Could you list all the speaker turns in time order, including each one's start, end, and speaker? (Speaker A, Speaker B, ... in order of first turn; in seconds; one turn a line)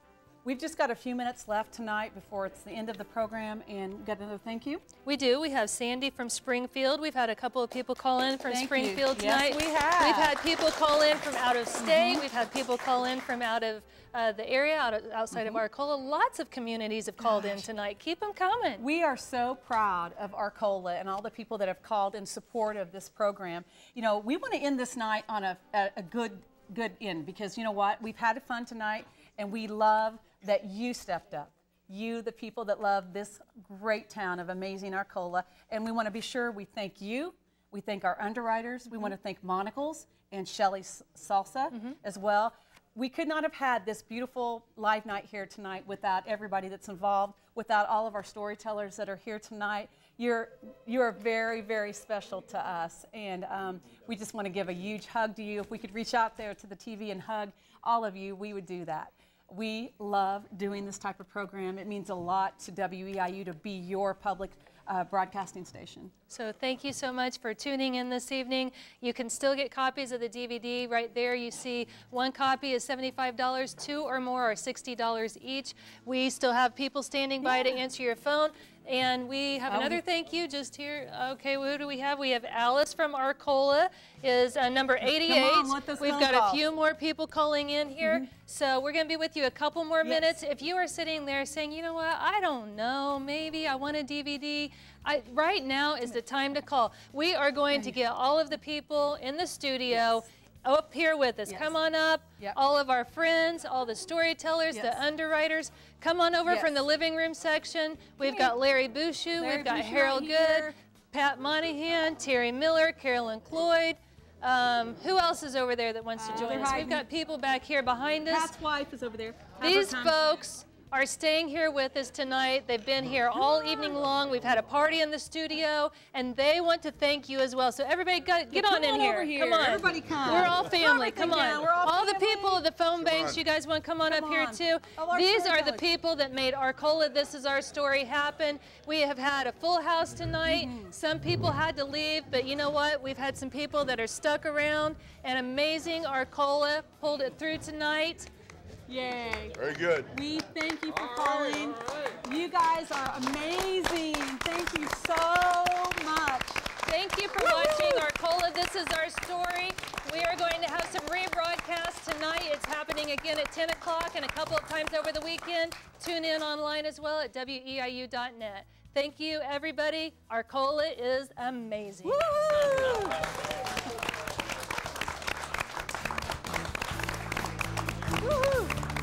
Speaker A: 0.4-4.8
Speaker B: 5.0-18.8
Speaker A: 8.5-10.3
Speaker A: 11.8-12.2
Speaker A: 15.3-15.6
Speaker A: 17.2-17.7
Speaker A: 18.8-66.1
Speaker B: 66.3-118.5
Speaker A: 77.4-77.8
Speaker A: 79.7-80.0
Speaker A: 85.0-86.6
Speaker A: 88.0-88.3
Speaker A: 90.0-90.3
Speaker A: 101.5-101.7
Speaker A: 104.7-105.0
Speaker A: 106.5-106.7
Speaker A: 108.2-108.6
Speaker A: 109.4-110.7
Speaker A: 116.2-117.1
Speaker A: 118.3-120.2
Speaker B: 119.6-148.3
Speaker A: 128.5-132.6
Speaker A: 134.1-135.8
Speaker A: 140.4-140.9
Speaker A: 148.9-156.8
Speaker B: 156.8-172.2
Speaker A: 157.4-158.1
Speaker A: 172.0-173.3
Speaker A: 178.2-178.7